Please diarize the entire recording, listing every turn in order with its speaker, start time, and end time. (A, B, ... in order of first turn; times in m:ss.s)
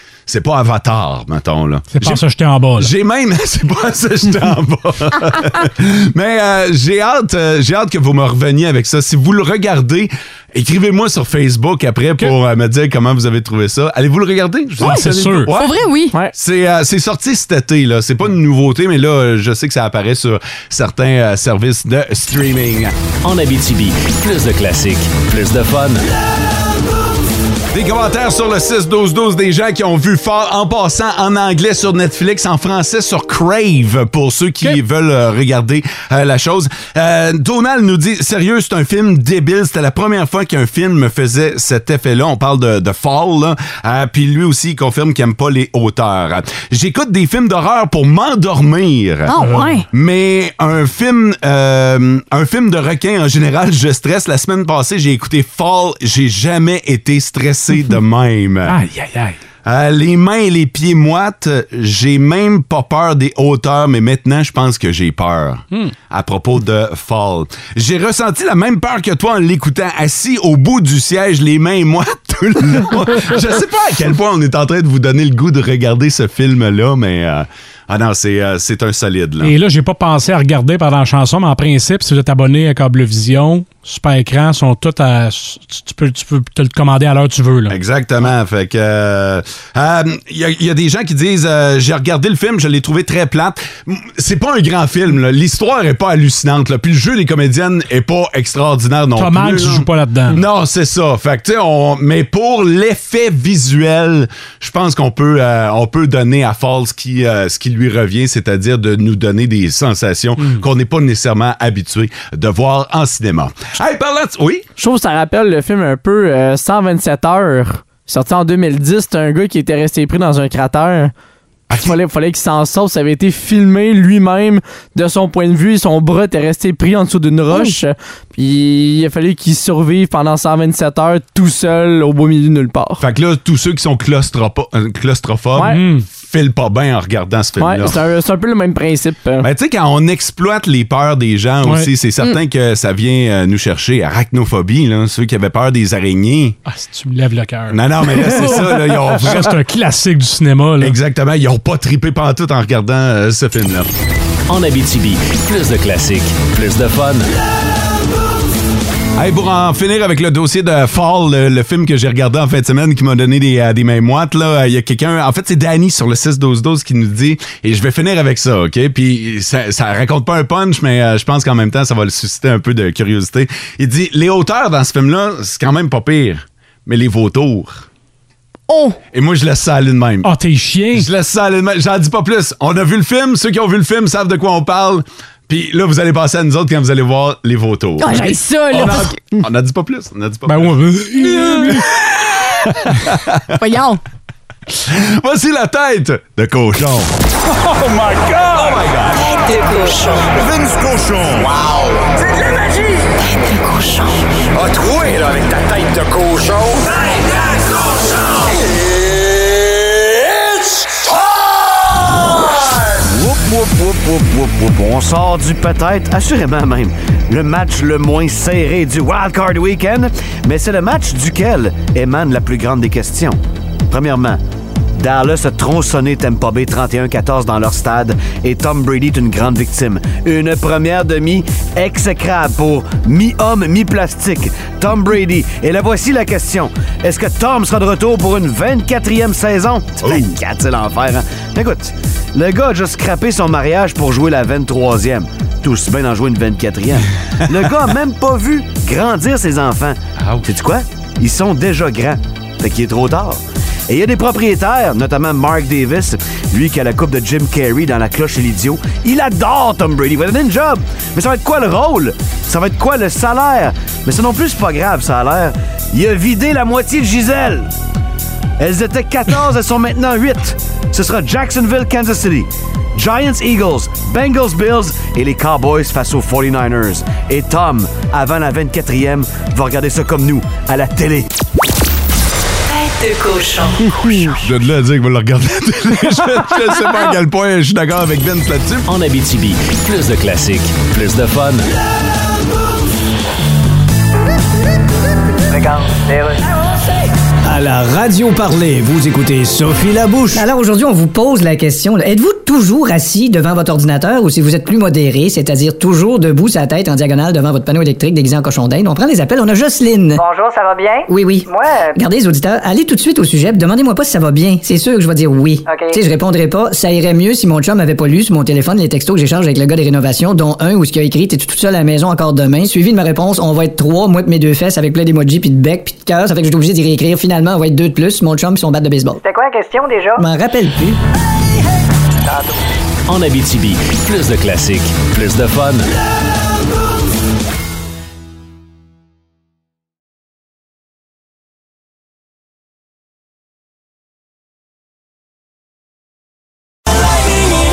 0:00.3-0:02.2 A
0:01.9-0:02.9 B
0:02.8-0:15.8 A
0:14.8-0:15.5 B
0:15.5-0:16.2 C
0:16.3-0:22.9 A
0:23.2-0:26.0 D
0:27.7-0:58.8 A
0:49.3-0:49.9 C
0:49.4-0:49.8 B
0:58.7-0:59.4 B
0:59.6-1:19.5 A
1:19.4-1:27.8 B
1:27.7-1:54.7 A
1:39.2-1:40.4 B
1:54.8-2:01.1 E
2:01.7-2:02.0 A
2:01.7-2:13.0 E
2:13.0-2:18.0 A
2:15.6-2:15.8 E
2:15.6-2:16.1 B
2:17.6-2:19.5 E
2:19.4-2:26.6 A
2:21.6-2:21.9 B
2:26.7-2:31.0 B
2:27.7-2:29.6 A
2:30.8-2:33.9 A
2:34.5-2:37.3 D
2:39.2-2:57.8 A
2:58.7-2:59.0 C
2:59.1-3:00.3 A
3:00.2-3:01.1 B
3:00.9-3:13.6 A
3:08.0-3:09.1 C
3:10.5-3:11.8 B
3:13.6-3:14.0 C
3:14.9-3:17.1 A
3:17.9-3:19.2 A
3:19.1-3:20.4 F
3:23.2-3:24.3 F
3:33.0-3:43.4 G
3:43.9-3:44.4 G
3:45.0-4:27.7 G
4:00.0-4:00.3 A
4:28.6-4:41.3 G
4:42.7-4:44.3 F
4:44.4-4:48.9 A
4:48.9-4:51.7 D
4:55.5-4:56.4 H
4:57.4-5:00.5 I
5:00.3-5:10.2 J
5:10.2-5:12.0 H
5:11.1-5:29.2 J
5:15.7-5:16.0 H
5:29.2-5:30.2 H
5:30.2-5:31.0 J
5:33.1-5:35.9 D